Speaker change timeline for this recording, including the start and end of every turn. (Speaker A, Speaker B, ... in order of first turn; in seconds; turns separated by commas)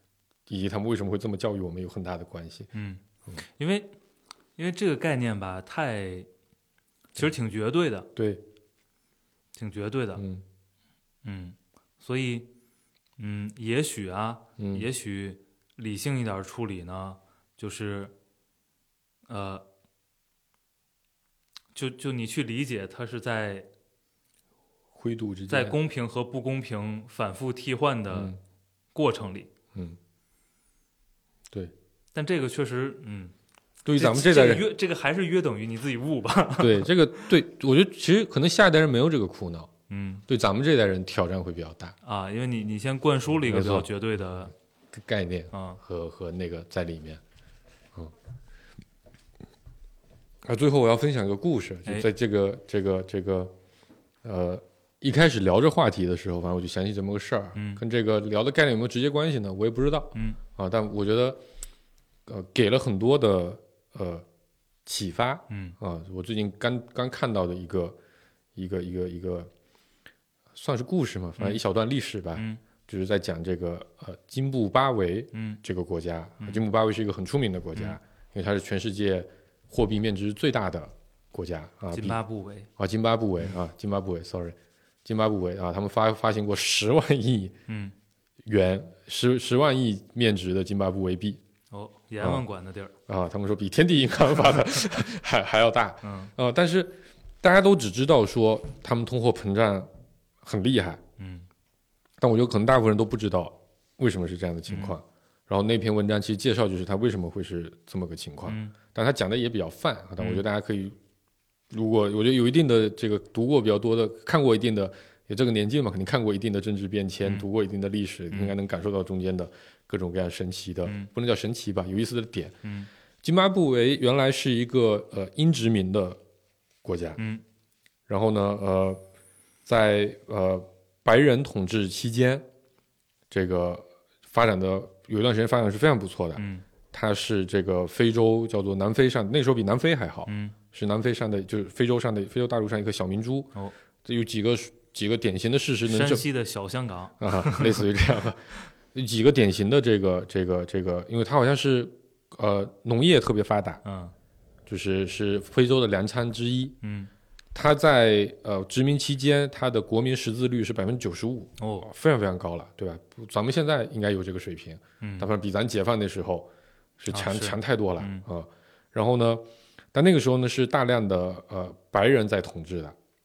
Speaker A: 0.5-2.7, Speaker B: 2.7-3.0, Speaker B: 3.6-3.9, Speaker B: 4.6-6.3, Speaker B: 7.1-8.1, Speaker A: 8.2-8.4, Speaker B: 9.6-10.2, Speaker A: 10.2-10.4, Speaker B: 11.2-12.5, Speaker B: 13.2-18.1, Speaker A: 14.6-14.9, Speaker B: 19.3-19.6, Speaker B: 21.7-23.7, Speaker A: 24.9-25.8, Speaker B: 25.5-28.4, Speaker A: 28.1-28.4, Speaker B: 28.9-29.5, Speaker B: 32.1-33.3, Speaker A: 33.8-34.7, Speaker B: 33.9-37.3, Speaker A: 36.6-39.7, Speaker B: 39.9-40.2, Speaker A: 40.3-41.9, Speaker B: 42.0-44.5, Speaker A: 43.4-43.9, Speaker A: 44.9-47.2, Speaker B: 45.5-45.8, Speaker A: 50.4-53.5, Speaker A: 54.2-61.4, Speaker B: 57.5-57.8, Speaker A: 62.2-64.2, Speaker A: 64.8-68.0, Speaker B: 65.5-65.8, Speaker A: 68.5-69.5, Speaker A: 70.5-82.2, Speaker B: 75.3-75.6, Speaker B: 81.9-82.7, Speaker A: 82.8-87.6, Speaker B: 87.7-87.9, Speaker A: 88.4-91.4, Speaker B: 91.7-92.9, Speaker A: 93.1-99.9, Speaker B: 96.0-96.3, Speaker A: 100.4-101.0, Speaker B: 101.2-101.5, Speaker A: 102.2-111.0, Speaker B: 104.7-105.0, Speaker B: 108.5-108.7, Speaker A: 111.7-122.6, Speaker A: 123.2-126.2, Speaker A: 126.8-127.2, Speaker B: 127.2-127.4, Speaker A: 128.1-129.0, Speaker A: 129.6-132.4, Speaker A: 133.3-146.2, Speaker B: 136.4-136.6, Speaker B: 140.3-140.6, Speaker B: 145.8-147.9, Speaker A: 147.2-153.8, Speaker B: 153.8-154.1, Speaker A: 154.7-156.8, Speaker B: 156.8-157.1, Speaker A: 157.5-172.9, Speaker B: 161.6-161.9, Speaker B: 165.0-165.3, Speaker B: 167.1-168.2